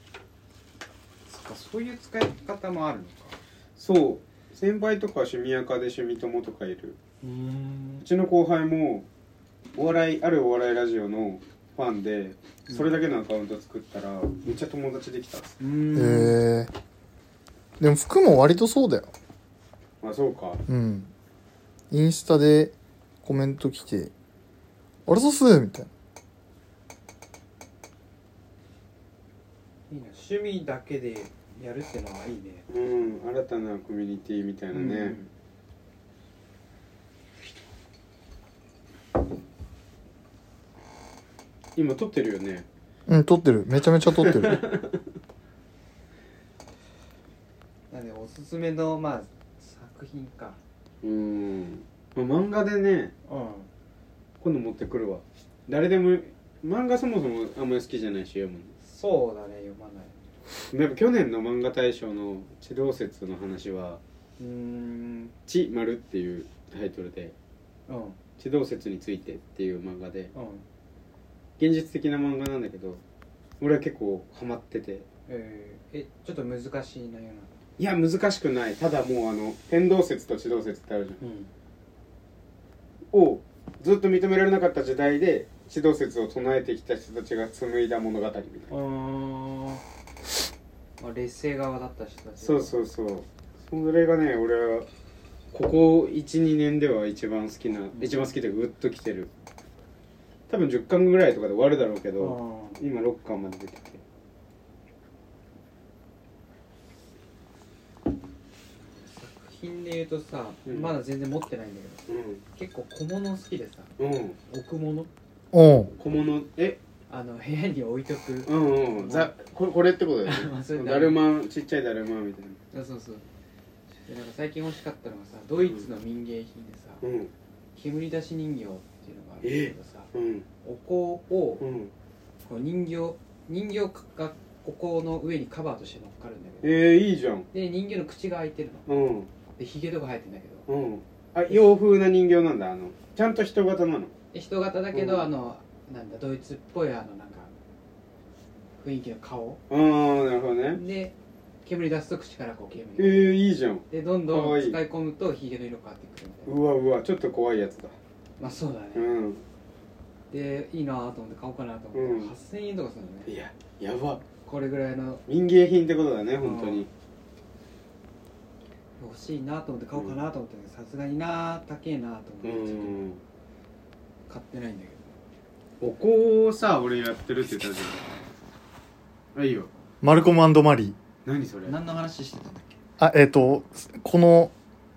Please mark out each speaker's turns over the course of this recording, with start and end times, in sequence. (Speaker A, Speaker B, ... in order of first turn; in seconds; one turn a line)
Speaker A: 1.3-3.4
Speaker B: 3.8-7.0
Speaker A: 7.2-8.1
Speaker B: 8.0-9.1
Speaker B: 9.7-15.5
Speaker A: 15.6-16.4
Speaker C: 15.9-16.7
Speaker C: 17.8-19.1
Speaker B: 20.0-20.6
Speaker C: 20.7-21.1
Speaker C: 21.9-24.1
Speaker C: 25.1-25.9
Speaker A: 29.9-32.6
Speaker B: 32.7-35.2
Speaker A: 34.7-35.3
Speaker B: 41.8-42.6
Speaker C: 43.1-44.6
Speaker B: 44.1-45.0
Speaker A: 47.9-50.6
Speaker B: 51.0-53.1
Speaker A: 53.3-53.7
Speaker B: 54.4-58.7
Speaker A: 58.8-60.2
Speaker B: 60.7-64.0
Speaker A: 64.4-65.3
Speaker B: 65.5-67.3
Speaker A: 67.9-68.2
Speaker B: 68.4-70.3
Speaker A: 70.3-70.6
Speaker B: 71.6-73.0
Speaker B: 73.6-75.0
Speaker A: 75.3-77.5
Speaker B: 77.8-81.2
Speaker A: 81.2-81.5
Speaker B: 83.1-88.7
Speaker A: 88.7-89.8
Speaker A: 91.0-92.8
Speaker B: 92.4-94.9
Speaker B: 95.5-99.3
Speaker A: 97.9-98.3
Speaker B: 100.5-104.0
Speaker A: 102.2-102.8
Speaker A: 109.0-113.9
Speaker B: 110.7-110.9
Speaker B: 112.1-112.4
Speaker B: 114.0-114.4
Speaker A: 114.4-115.1
Speaker C: 115.5-115.9
Speaker B: 116.0-116.8
Speaker A: 117.1-119.3
Speaker B: 118.5-122.6
Speaker A: 120.2-121.2
Speaker A: 122.7-123.2
Speaker A: 124.0-127.0
Speaker B: 125.6-125.9
Speaker B: 127.0-127.3
Speaker A: 127.7-130.1
Speaker B: 129.4-130.4
Speaker A: 130.6-131.6
Speaker B: 131.6-131.9
Speaker A: 132.4-136.7
Speaker B: 136.6-137.5
Speaker A: 137.5-138.8
Speaker B: 138.9-139.3
Speaker A: 139.6-140.7
Speaker B: 140.7-144.1
Speaker A: 144.3-147.5
Speaker B: 144.9-145.2
Speaker A: 148.8-149.6
Speaker B: 149.7-150.8
Speaker A: 150.7-153.4
Speaker B: 153.0-154.8
Speaker A: 153.9-156.5
Speaker B: 156.4-157.9
Speaker A: 158.4-159.1
Speaker B: 158.9-159.4
Speaker A: 160.3-163.3
Speaker B: 161.9-162.3
Speaker B: 163.3-164.2
Speaker A: 164.4-165.2
Speaker B: 165.3-166.9
Speaker A: 166.4-166.9
Speaker A: 169.0-173.0
Speaker B: 172.4-173.2
Speaker A: 174.3-175.2
Speaker B: 175.8-178.0
Speaker A: 177.6-178.0
Speaker B: 179.3-179.7
Speaker C: 180.0-180.9
Speaker B: 181.2-181.8
Speaker A: 181.6-182.8
Speaker C: 183.0-184.5